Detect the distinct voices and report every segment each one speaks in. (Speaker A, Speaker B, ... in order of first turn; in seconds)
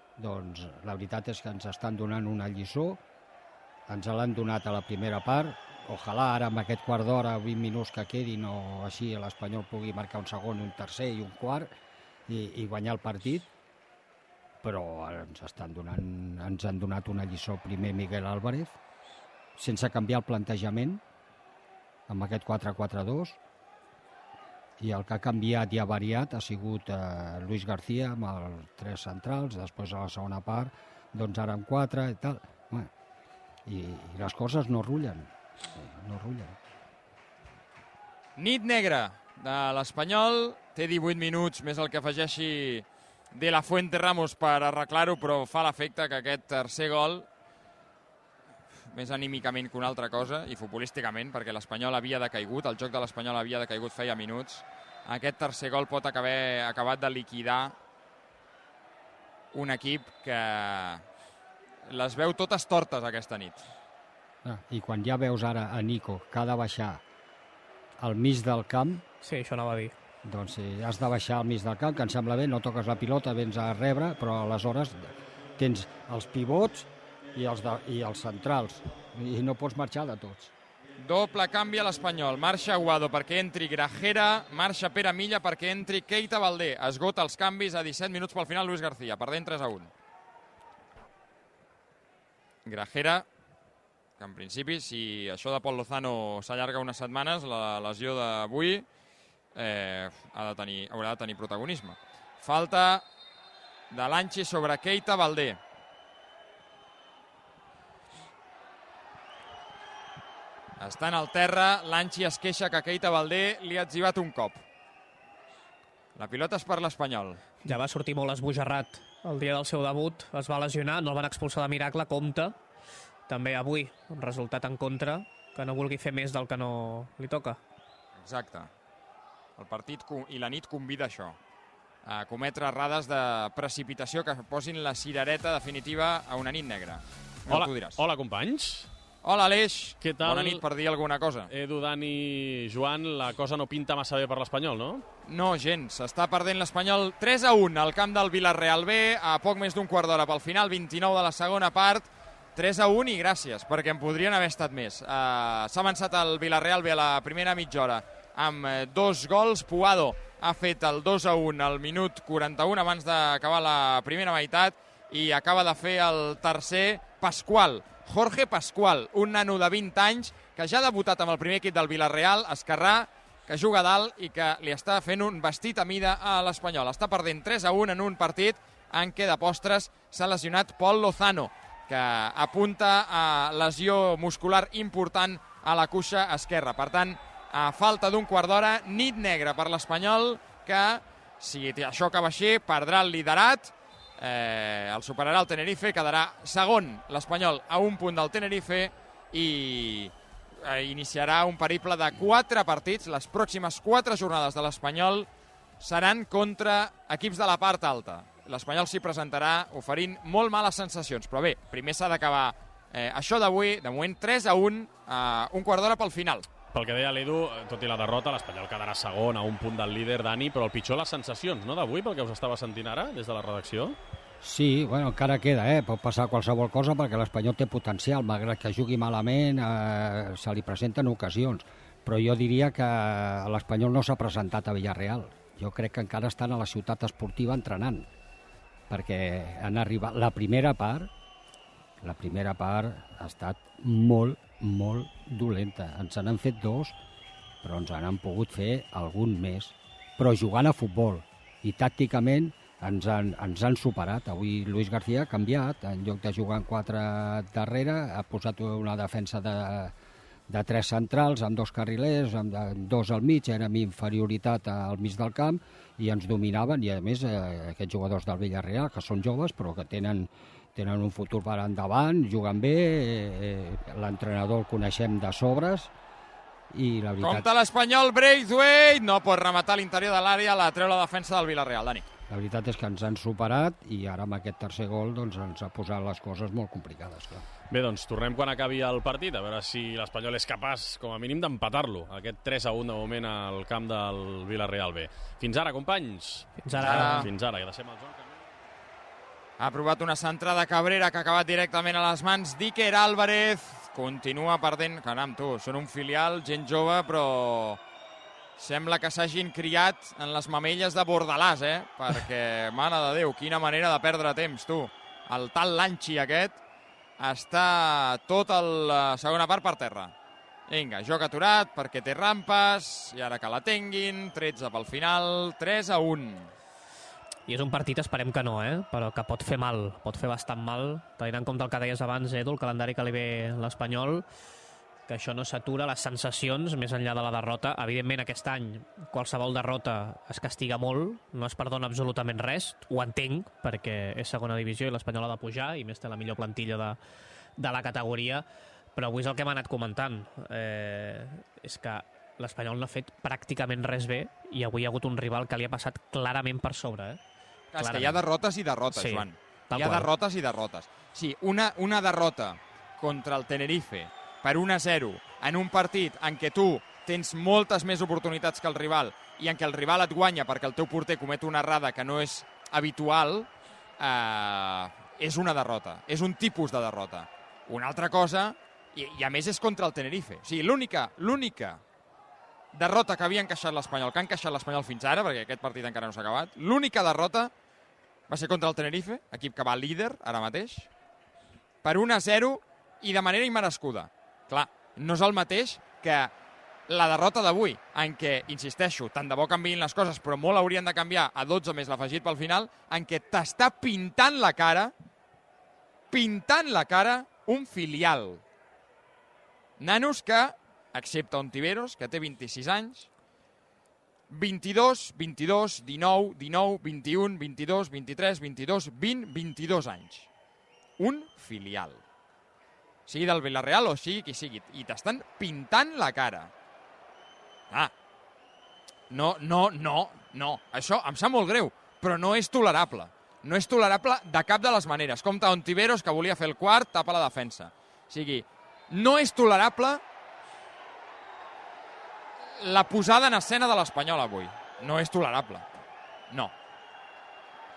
Speaker A: 0.2-3.0, 3.9-11.7, 12.3-13.5, 14.6-18.8, 19.6-21.0, 22.1-23.4, 24.8-32.9, 33.7-36.6, 64.4-67.0, 68.0-69.0, 70.2-80.5, 224.4-238.1, 238.9-241.1, 242.0-247.0, 247.6-259.9, 260.5-275.9, 276.7-277.5, 282.3-287.4
Speaker B: 38.4-47.3, 48.9-57.8, 59.5-61.0, 61.9-63.7, 81.0-89.9, 92.7-93.3, 94.2-98.8, 99.5-103.0, 103.9-105.6, 110.8-114.6, 116.2-117.4, 128.2-128.7, 129.6-131.4, 132.0-138.0, 139.2-141.5, 145.3-205.3, 205.8-216.5, 277.2-282.1, 296.8-297.3, 299.6-307.8, 308.6-316.6, 317.2-320.1, 320.7-326.5, 357.7-373.5, 374.0-381.8, 382.7-387.5, 388.3-390.9, 391.8-396.3, 396.9-404.9, 406.1-408.4, 409.8-413.1, 414.3-420.3, 421.0-422.0, 423.1-426.5, 429.1-440.0, 442.6-445.8
Speaker C: 69.2-70.0, 117.6-122.6, 123.3-127.6, 296.6-297.3, 327.5-334.3, 335.1-347.0, 347.6-357.2, 357.8-358.2, 358.9-360.1
Speaker D: 137.5-138.9, 140.0-140.6, 141.5-145.1, 216.7-224.0, 287.7-298.4